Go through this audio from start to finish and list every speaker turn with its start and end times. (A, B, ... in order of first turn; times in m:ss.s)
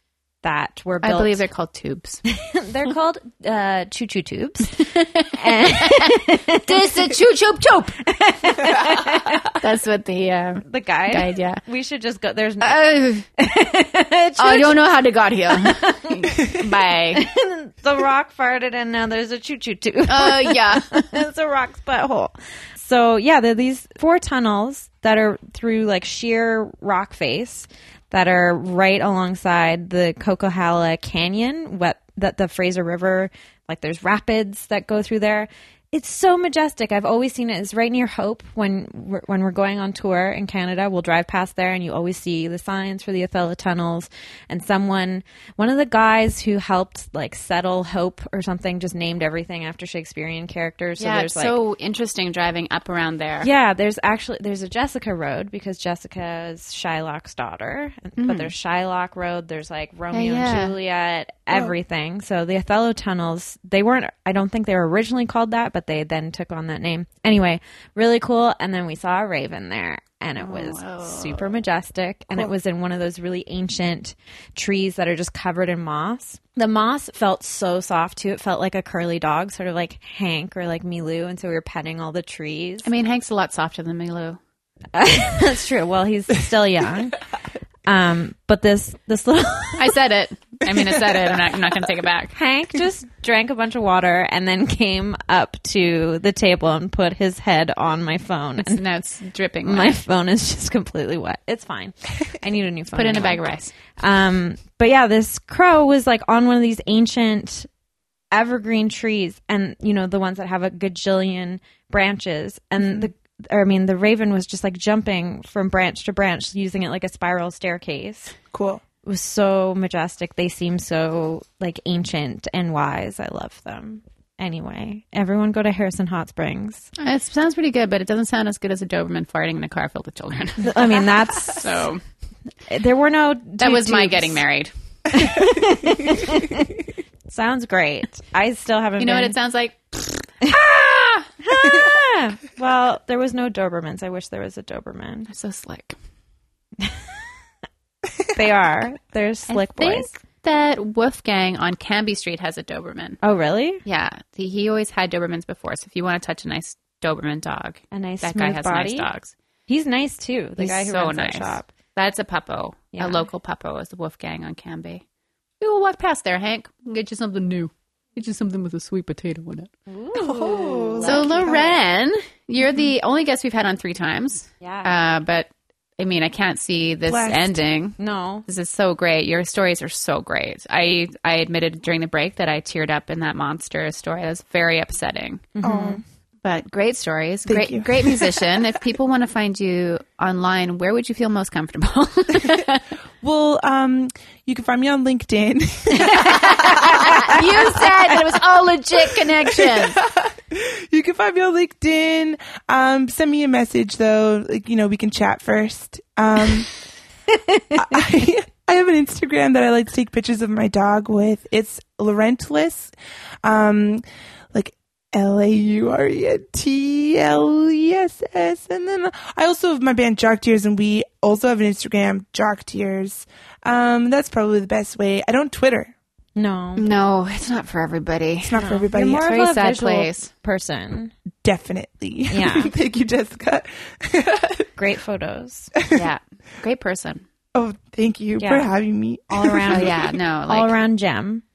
0:00.4-0:01.4 A
0:01.0-0:02.2 B
0:02.3-0:07.2 A
0:04.8-0:08.0 B
0:08.0-0:09.6 A
0:09.5-0:11.6 B
0:10.6-0:12.8 A
0:12.6-0:13.3 B
0:13.4-0:14.8 A
0:14.4-0:17.2 B
0:15.6-0:16.3 A
0:17.1-0:51.6 A
0:20.1-0:21.0 B
0:51.0-0:53.5 B
0:53.4-1:22.9 A
0:58.2-0:58.5 B
1:00.1-1:00.7 B
1:10.4-1:11.6 B
1:22.8-1:24.4 B
1:24.9-1:27.2 A
1:27.9-1:30.0 A
1:29.8-1:32.3 B
1:32.3-1:38.8 A
1:38.6-1:40.0 B
1:39.6-1:43.4 A
1:42.9-1:43.7 B
1:44.0-1:47.7 A
1:48.3-1:58.3 A
1:52.8-1:53.1 C
1:58.5-1:58.8 C
1:59.0-2:06.9 A
2:07.0-2:12.0 B
2:10.6-2:11.9 A
2:12.7-2:14.4 A
2:13.6-2:14.7 B
2:15.1-2:16.7 A
2:17.3-2:19.4 A
2:19.0-2:21.3 B
2:21.4-2:25.3 A
2:25.3-2:26.0 B
2:26.8-2:27.0 A
2:28.3-2:30.1 A
2:29.5-2:33.2 B
2:33.2-2:33.8 A
2:33.9-2:39.3 B
2:37.9-2:39.1 A
2:39.7-2:41.7 A
2:40.6-2:45.0 B
2:42.9-2:43.3 A
2:45.6-2:49.7 B
2:49.9-2:51.8 A
2:50.1-2:51.6 C
2:51.0-3:05.6 B
2:54.6-2:54.9 A
2:57.0-2:57.6 C
2:58.0-2:58.4 A
3:05.6-3:06.0 A
3:05.6-3:06.0 C
3:06.4-3:12.8 B
3:07.4-3:08.6 C
3:13.2-3:18.4 C
3:16.0-3:20.0 B
3:17.0-3:17.4 A
3:19.0-3:26.7 C
3:27.3-3:27.8 A
3:27.7-3:45.9 C
3:46.4-3:46.9 A
3:46.8-3:50.3 B
3:48.4-3:49.3 C
3:48.6-3:51.1 A
3:51.4-3:54.8 C
3:52.3-3:52.7 A
3:54.8-3:55.7 A
3:55.8-3:56.1 C
3:55.9-3:57.2 B
3:57.6-4:00.2 C
3:58.4-3:58.7 A
3:59.3-4:01.4 A
3:59.7-4:00.8 B